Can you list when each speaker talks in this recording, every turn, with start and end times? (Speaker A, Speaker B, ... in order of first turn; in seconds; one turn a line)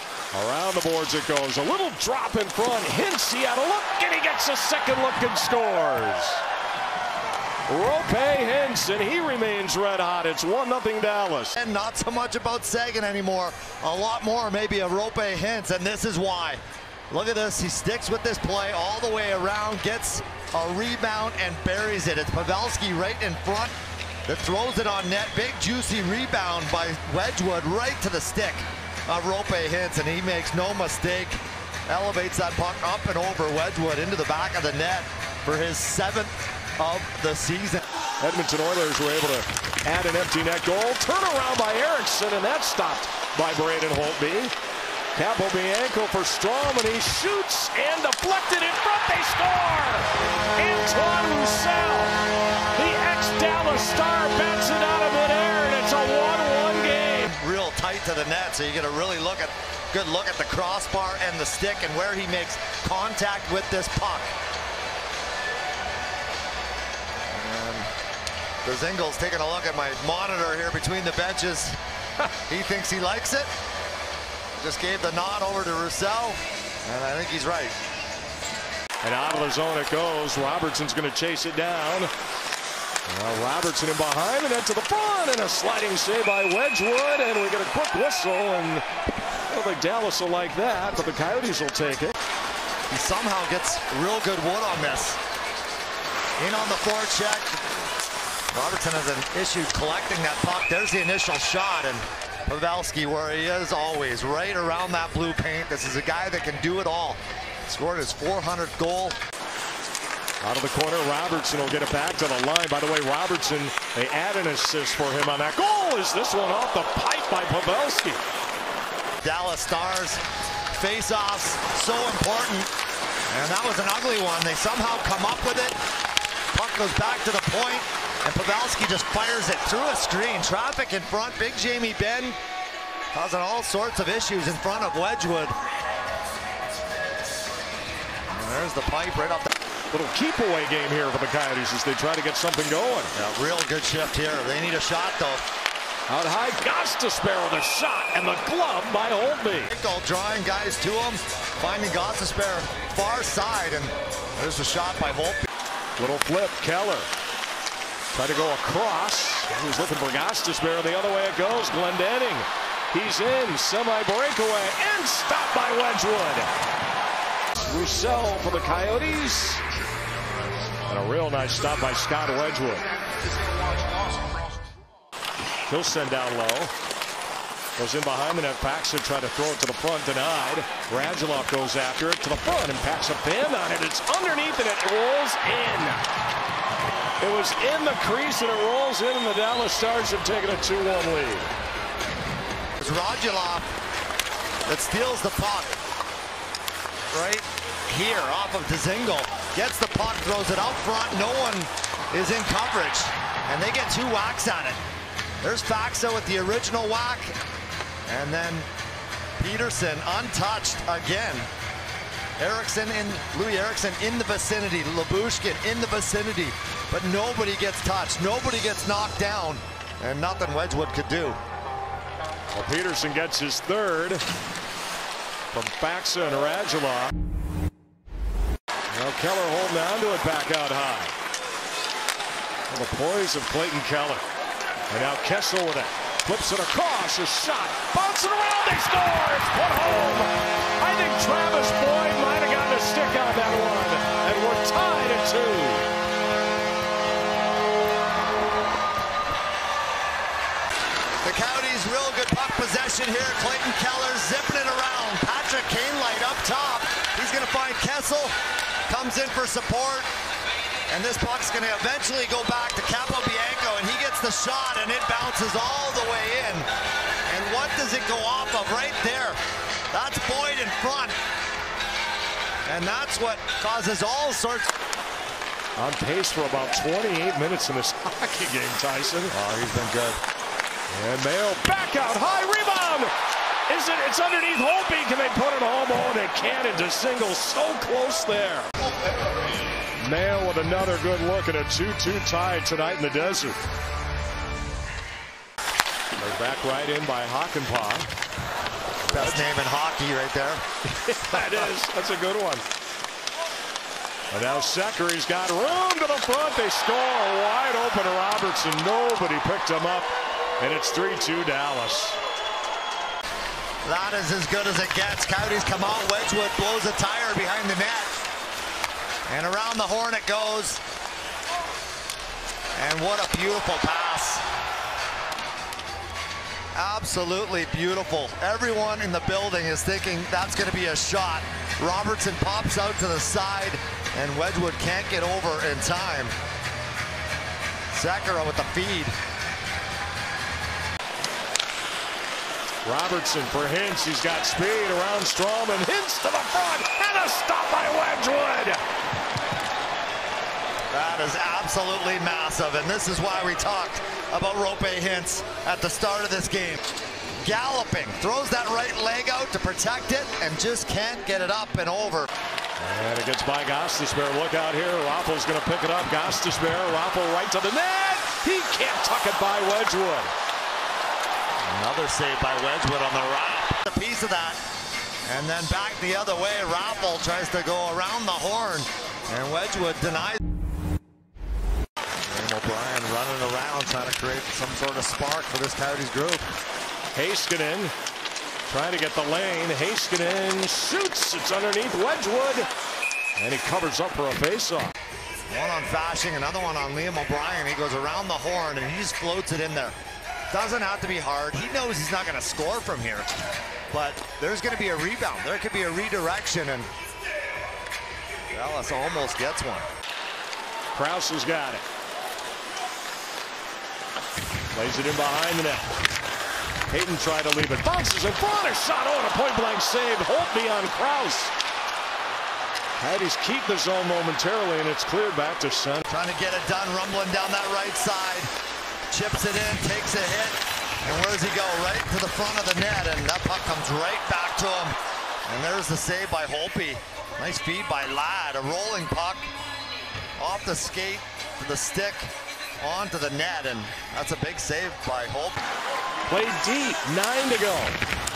Speaker A: 0.3-6.5
Speaker A: 7.7-11.6
Speaker B: 11.6-23.7
Speaker B: 24.3-37.8
Speaker A: 38.2-44.5
Speaker A: 45.1-52.2
Speaker A: 52.7-57.3
Speaker B: 57.3-64.3
Speaker B: 67.3-67.9
Speaker B: 68.6-71.8
Speaker B: 72.5-73.5
Speaker B: 74.6-77.8
Speaker A: 79.0-82.1
Speaker A: 83.1-88.8
Speaker A: 89.5-92.2
Speaker B: 92.9-95.2
Speaker B: 96.4-97.7
Speaker B: 98.5-109.2
Speaker A: 110.4-118.2
Speaker B: 119.2-120.2
Speaker B: 120.7-122.7
Speaker B: 123.3-125.8
Speaker B: 126.5-132.4
Speaker B: 133.1-135.6
Speaker B: 138.3-139.5
Speaker A: 139.9-143.1
Speaker B: 143.1-145.4
Speaker A: 146.1-149.7
Speaker B: 149.7-155.5
Speaker A: 156.0-157.1
Speaker A: 158.1-166.5
Speaker A: 167.6-169.6
Speaker A: 170.9-172.8
Speaker A: 175.7-176.7
Speaker A: 177.8-186.0
Speaker A: 187.2-191.5
Speaker B: 192.8-193.7
Speaker B: 194.7-195.8
Speaker B: 197.1-204.8
Speaker B: 205.4-207.4
Speaker B: 208.1-208.7
Speaker B: 209.4-211.5
Speaker B: 212.4-221.4
Speaker A: 222.5-224.2
Speaker A: 225.5-227.1
Speaker A: 228.9-231.2
Speaker A: 232.7-234.2
Speaker A: 234.9-245.9
Speaker B: 251.2-258.3
Speaker B: 258.9-260.1
Speaker B: 260.9-266.7
Speaker B: 267.3-269.4
Speaker B: 269.9-271.2
Speaker B: 272.7-274.8
Speaker A: 275.8-279.3
Speaker B: 279.3-280.2
Speaker A: 280.9-283.1
Speaker A: 283.7-288.7
Speaker A: 290.0-293.6
Speaker A: 296.2-298.1
Speaker B: 299.1-300.6
Speaker A: 299.1-299.5
Speaker A: 300.9-302.6
Speaker B: 301.3-301.7
Speaker A: 304.3-312.2
Speaker B: 313.8-318.1
Speaker B: 319.3-320.8
Speaker B: 322.8-324.4
Speaker B: 326.8-336.4
Speaker B: 337.9-339.2
Speaker A: 342.9-348.8
Speaker B: 350.9-356.8
Speaker B: 357.4-362.3
Speaker A: 362.8-370.3
Speaker B: 371.7-374.6
Speaker B: 375.3-380.4
Speaker B: 382.2-386.5
Speaker A: 387.1-387.9
Speaker A: 388.7-392.7
Speaker A: 393.4-394.9
Speaker B: 395.5-400.0
Speaker B: 400.5-403.3
Speaker B: 403.9-406.9
Speaker B: 408.5-409.9
Speaker A: 410.9-411.8
Speaker A: 414.7-415.9
Speaker A: 416.9-421.5
Speaker A: 423.0-426.1
Speaker B: 426.1-428.5
Speaker B: 429.1-434.9
Speaker B: 435.5-439.5
Speaker B: 440.4-445.6
Speaker A: 446.3-448.0